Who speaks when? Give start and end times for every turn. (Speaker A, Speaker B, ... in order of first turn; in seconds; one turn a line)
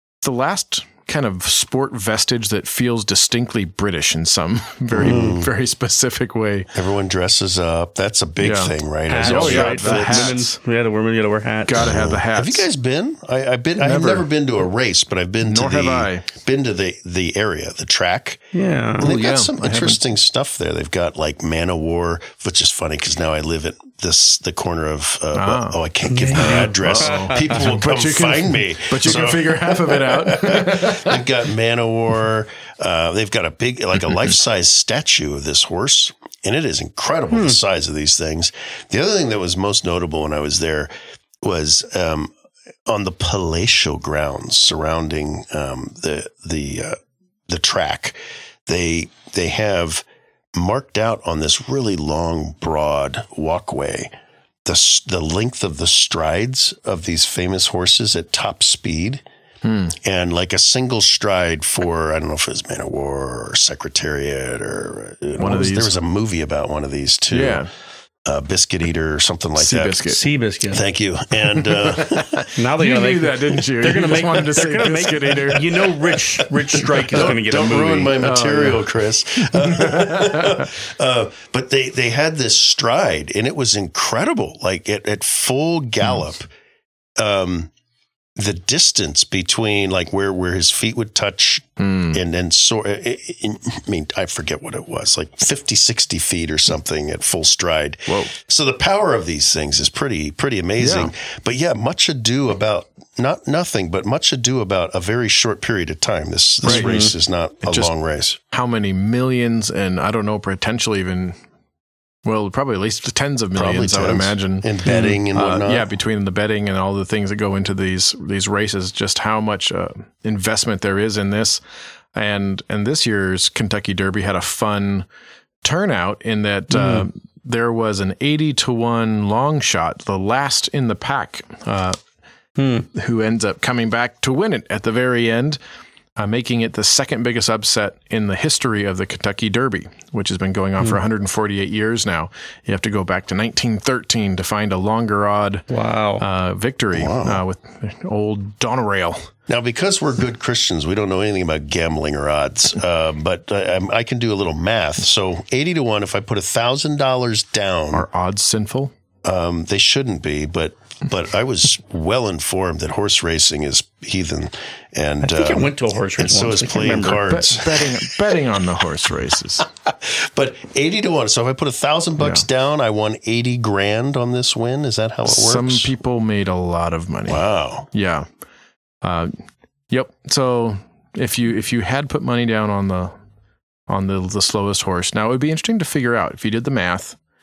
Speaker A: 0.2-6.7
Speaker B: 4.9-5.5
Speaker C: 5.0-5.4
Speaker B: 6.7-10.4
Speaker A: 8.4-10.6
Speaker C: 9.1-11.9
Speaker A: 11.7-12.7
Speaker B: 11.8-18.4
Speaker A: 13.8-14.3
Speaker A: 15.4-16.3
Speaker C: 18.5-19.1
Speaker B: 19.0-40.9
Speaker A: 19.0-20.0
Speaker A: 25.3-25.8
Speaker C: 26.1-27.6
Speaker A: 26.3-31.2
Speaker C: 37.3-37.6
Speaker B: 41.4-42.3
Speaker B: 42.9-47.0
Speaker B: 47.5-50.0
Speaker B: 50.6-54.1
Speaker B: 54.7-59.2
Speaker A: 59.6-60.0
Speaker B: 60.0-67.6
Speaker A: 65.4-66.0
Speaker A: 67.3-67.7
Speaker B: 68.2-70.1
Speaker A: 69.6-70.2
Speaker C: 70.1-70.8
Speaker B: 70.7-72.5
Speaker A: 71.4-76.2
Speaker C: 72.6-78.3
Speaker A: 76.9-77.3
Speaker B: 77.1-86.5
Speaker A: 78.2-78.9
Speaker A: 79.4-80.7
Speaker B: 87.2-87.7
Speaker B: 88.4-108.4
Speaker A: 91.8-92.2
Speaker A: 98.1-98.3
Speaker A: 100.8-101.1
Speaker C: 106.6-107.1
Speaker A: 106.7-106.9
Speaker A: 107.6-107.9
Speaker A: 108.5-111.4
Speaker A: 112.2-121.6
Speaker B: 113.6-115.9
Speaker C: 114.9-115.2
Speaker A: 122.2-125.1
Speaker A: 125.6-132.0
Speaker C: 126.7-127.1
Speaker C: 132.6-132.9
Speaker A: 132.9-135.6
Speaker A: 136.2-145.7
Speaker C: 145.7-146.2
Speaker A: 146.2-149.3
Speaker B: 146.9-147.4
Speaker B: 149.5-158.1
Speaker A: 157.9-158.9
Speaker B: 159.2-168.4
Speaker C: 165.2-167.3
Speaker A: 167.3-169.7
Speaker B: 169.6-175.9
Speaker A: 172.2-172.4
Speaker A: 175.3-178.3
Speaker B: 177.3-177.9
Speaker A: 179.0-183.1
Speaker A: 183.9-187.2